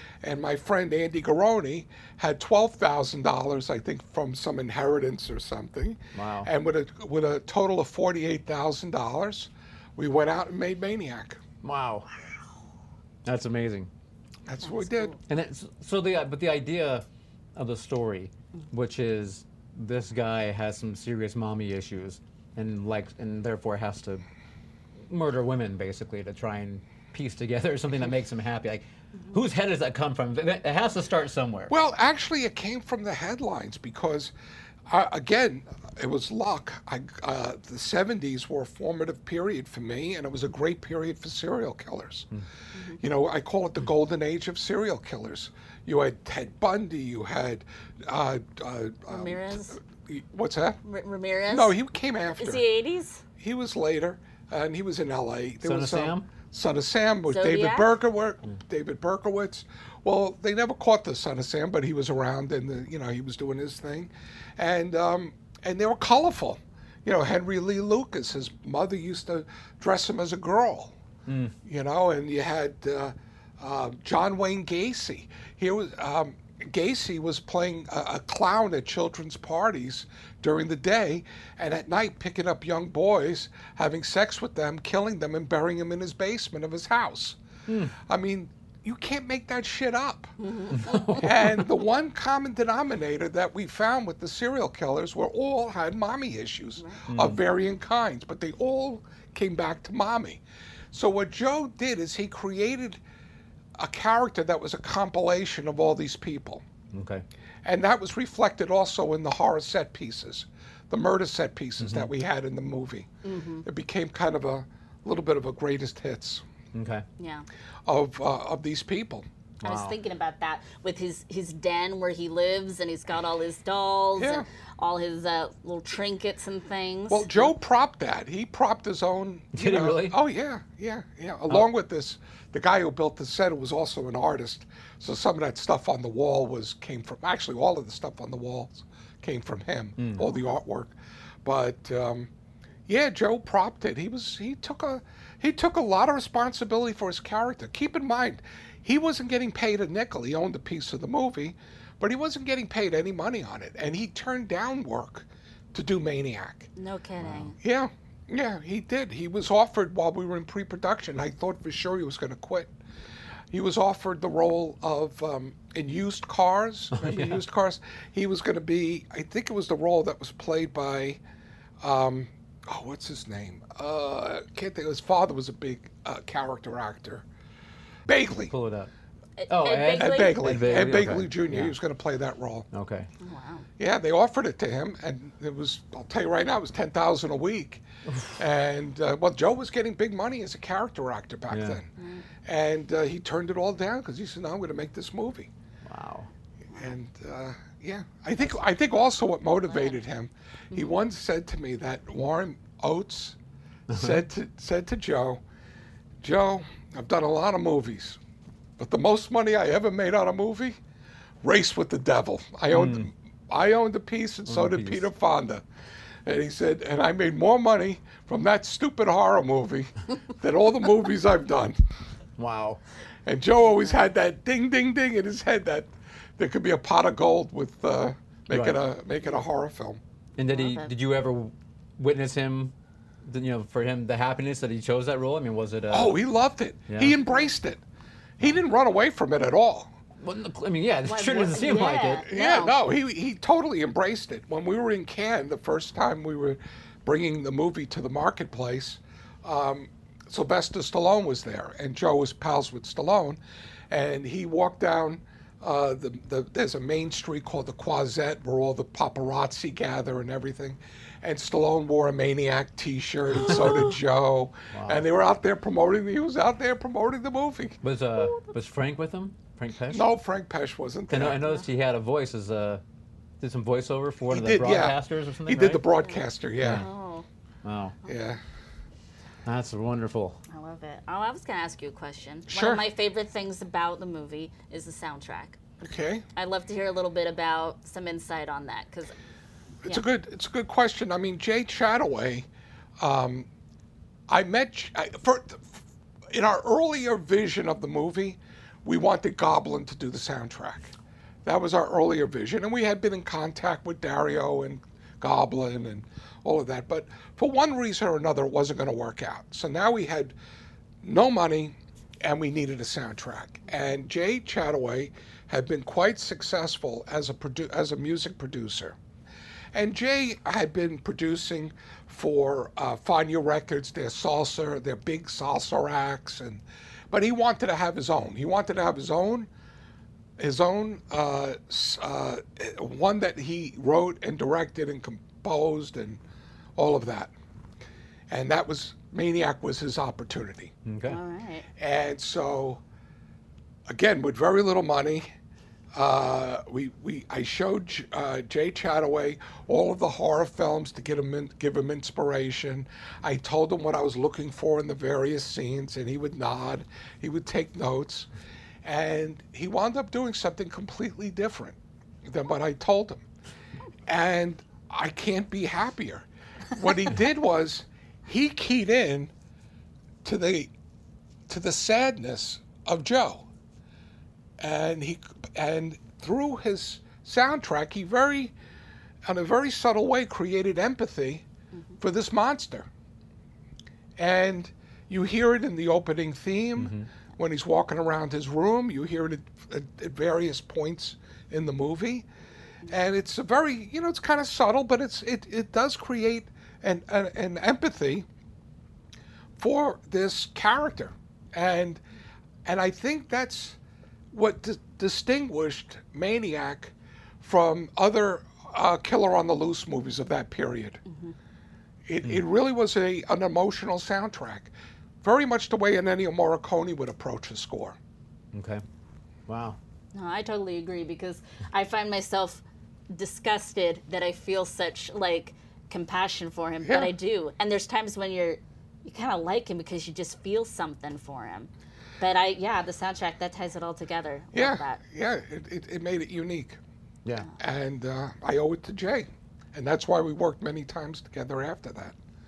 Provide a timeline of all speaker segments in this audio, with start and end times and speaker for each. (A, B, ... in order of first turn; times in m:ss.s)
0:00.2-0:11.4 A
0:06.1-0:06.5 B
0:11.6-0:12.1 B
0:13.2-0:13.9 B
0:14.5-0:15.2 A
0:14.6-0:15.2 C
0:15.3-0:17.0 B
0:17.6-0:24.2 B
0:25.1-0:31.7 B
0:31.7-0:34.3 A
0:34.9-0:42.3 A
0:42.7-0:43.0 C
0:43.0-0:50.8 A
0:49.1-0:49.8 C
0:50.8-0:51.8 C
0:51.5-0:52.6 A
0:52.4-0:53.2 C
0:53.4-1:10.9 A
0:55.6-0:56.3 B
0:57.3-0:58.0 C
1:11.3-1:11.6 B
1:11.6-1:27.4 A
1:27.7-1:27.9 B
1:28.1-1:40.4 A
1:30.4-1:31.2 C
1:30.7-1:31.7 B
1:37.1-1:37.4 B
1:40.9-1:43.0 A
1:43.8-1:46.6 A
1:46.9-1:47.2 B
1:47.6-1:53.1 A
1:51.8-1:52.1 B
1:53.2-1:53.7 C
1:53.6-1:56.4 A
1:56.7-1:57.0 B
1:57.2-1:57.5 C
1:57.9-1:59.3 A
1:59.6-2:00.0 B
1:59.6-2:07.5 C
2:04.2-2:04.4 A
2:07.1-2:22.3 A
2:09.5-2:10.2 B
2:20.0-2:20.3 B
2:22.9-2:36.7 A
2:36.8-2:37.6 C
2:37.2-2:37.5 B
2:37.6-2:42.7 A
2:43.5-2:51.2 A
2:46.9-2:47.4 B
2:51.8-2:57.2 A
2:58.1-2:58.5 A
2:58.5-2:58.9 B
2:59.4-3:00.6 C
2:59.5-3:01.8 B
3:00.0-3:02.7 A
3:02.7-3:03.1 B
3:03.2-3:03.7 C
3:03.8-3:07.8 A
3:08.1-3:08.4 B
3:08.4-3:11.9 A
3:11.5-3:11.8 B
3:12.0-3:12.2 C
3:12.4-3:15.5 A
3:15.9-3:16.3 B
3:16.8-3:23.4 A
3:19.7-3:20.0 C
3:23.9-3:24.2 B
3:23.9-3:25.4 A
3:26.2-3:28.2 A
3:28.8-3:30.8 A
3:31.4-3:35.6 A
3:32.7-3:33.1 B
3:34.5-3:35.0 B
3:36.3-3:41.8 A
3:42.4-3:42.8 B
3:43.3-3:50.0 A
3:43.6-3:44.0 C
3:48.5-3:48.8 B
3:50.4-3:52.7 B
3:50.5-3:50.9 C
3:53.2-3:56.2 B
3:55.9-3:57.8 A
3:56.9-3:57.2 B
3:58.4-3:59.9 A
4:00.2-4:02.3 B
4:01.0-4:02.8 C
4:02.3-4:13.4 A
4:13.9-4:27.8 A
4:24.7-4:25.0 B
4:27.8-4:30.0 B
4:28.2-4:28.5 C
4:29.9-4:31.4 A
4:31.1-4:32.8 B
4:33.4-4:35.8 B
4:34.3-4:36.9 A
4:36.0-4:37.3 C
4:36.6-4:36.9 B
4:37.6-4:38.0 B
4:38.1-4:38.4 A
4:39.4-4:40.4 B
4:40.5-4:45.8 C
4:42.5-4:42.8 A
4:45.8-4:46.2 A
4:46.4-4:49.1 C
4:49.8-4:52.5 A
4:53.0-4:53.5 A
4:54.3-4:55.8 A
4:56.3-5:00.9 A
5:01.4-5:10.4 A
5:11.0-5:19.0 A
5:19.7-5:29.5 A
5:30.4-5:36.2 A
5:36.8-5:37.3 A
5:38.3-5:40.7 A
5:40.9-5:41.2 B
5:41.1-5:41.7 C
5:41.8-5:42.8 A
5:43.9-5:45.3 A
5:46.0-5:58.3 A
5:58.8-6:03.2 A
6:04.1-6:09.3 A
6:10.2-6:10.7 A
6:11.5-6:13.5 A
6:14.6-6:18.5 A
6:19.3-6:21.4 A
6:22.0-6:22.9 A
6:24.2-6:32.3 A
6:26.8-6:27.1 B
6:32.9-6:38.3 A
6:39.6-6:42.0 A
6:42.6-6:43.8 A
6:44.3-6:51.0 A
6:51.1-6:51.3 C
6:52.1-6:54.7 A
6:55.2-6:58.0 A
6:58.5-6:58.8 B
6:59.5-6:59.8 B
7:00.1-7:11.7 C
7:06.8-7:07.1 A
7:12.2-7:15.0 C
7:14.5-7:16.8 A
7:17.6-7:22.2 A